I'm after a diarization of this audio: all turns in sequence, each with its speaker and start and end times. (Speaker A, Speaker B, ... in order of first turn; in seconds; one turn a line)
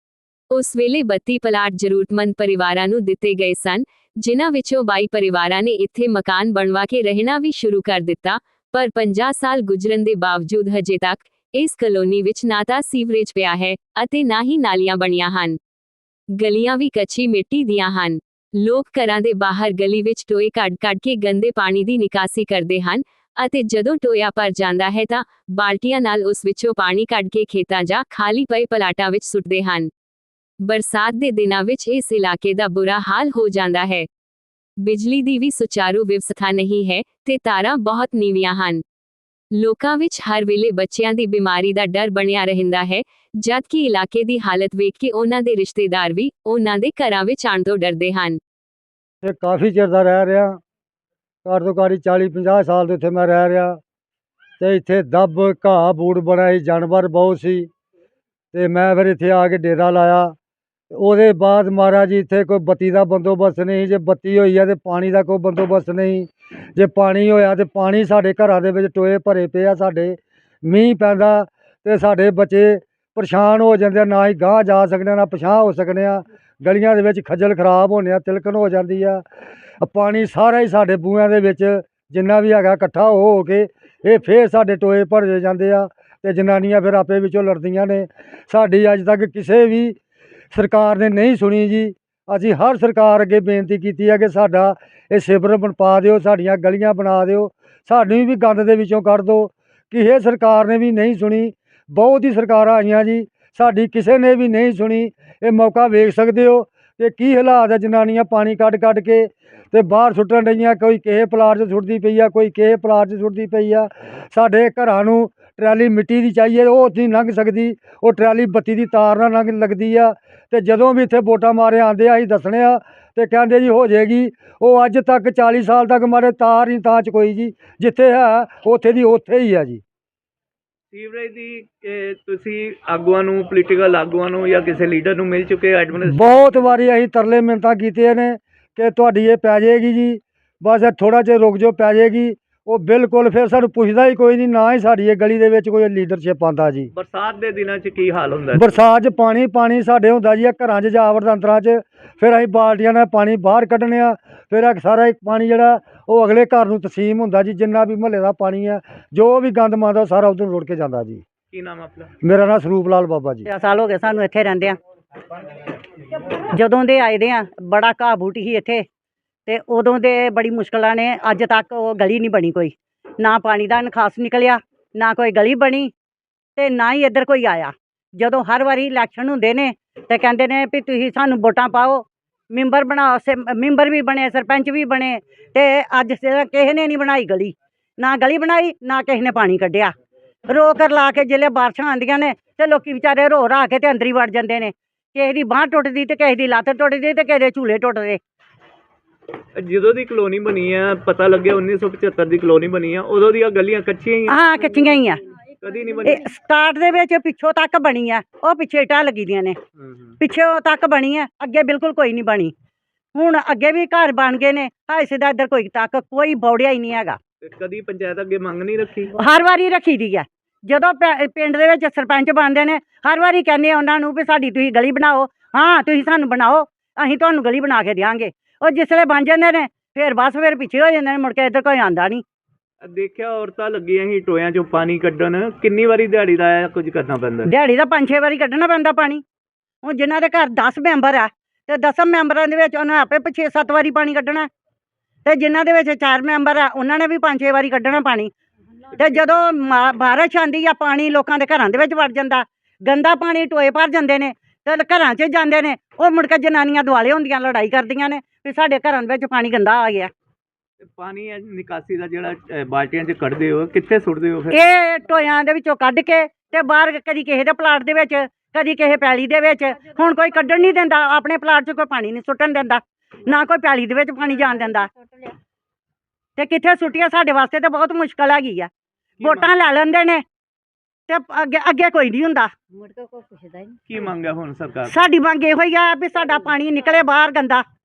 Speaker A: 0.5-15.6
Speaker A: 16.4-29.9
Speaker A: 30.6-34.1
Speaker A: 34.8-38.8
Speaker A: 39.5-48.4
Speaker B: 49.2-50.6
Speaker B: 51.4-53.8
Speaker B: 54.6-57.7
Speaker B: 58.5-60.3
Speaker B: 60.9-79.2
Speaker B: 79.8-90.0
Speaker B: 90.5-129.8
Speaker C: 130.9-136.5
Speaker B: 136.0-146.9
Speaker C: 146.9-148.8
Speaker B: 148.5-161.2
Speaker C: 161.5-162.1
Speaker B: 162.2-163.5
Speaker D: 163.5-164.8
Speaker D: 166.5-168.8
Speaker D: 169.5-175.9
Speaker D: 176.6-189.9
Speaker D: 190.5-198.2
Speaker C: 199.6-204.4
Speaker D: 204.3-205.2
Speaker C: 205.6-206.2
Speaker D: 206.0-209.6
Speaker C: 209.8-210.2
Speaker D: 210.2-212.5
Speaker D: 213.1-217.2
Speaker C: 217.4-219.1
Speaker D: 219.2-232.2
Speaker C: 232.8-237.5
Speaker D: 237.5-239.2
Speaker D: 239.8-244.5
Speaker D: 245.2-248.3
Speaker D: 248.9-260.1
Speaker C: 260.8-264.6
Speaker D: 264.5-274.9
Speaker D: 276.4-278.7
Speaker C: 279.2-279.5
Speaker D: 279.2-280.2
Speaker D: 281.1-283.4
Speaker C: 283.9-285.0
Speaker D: 284.9-287.6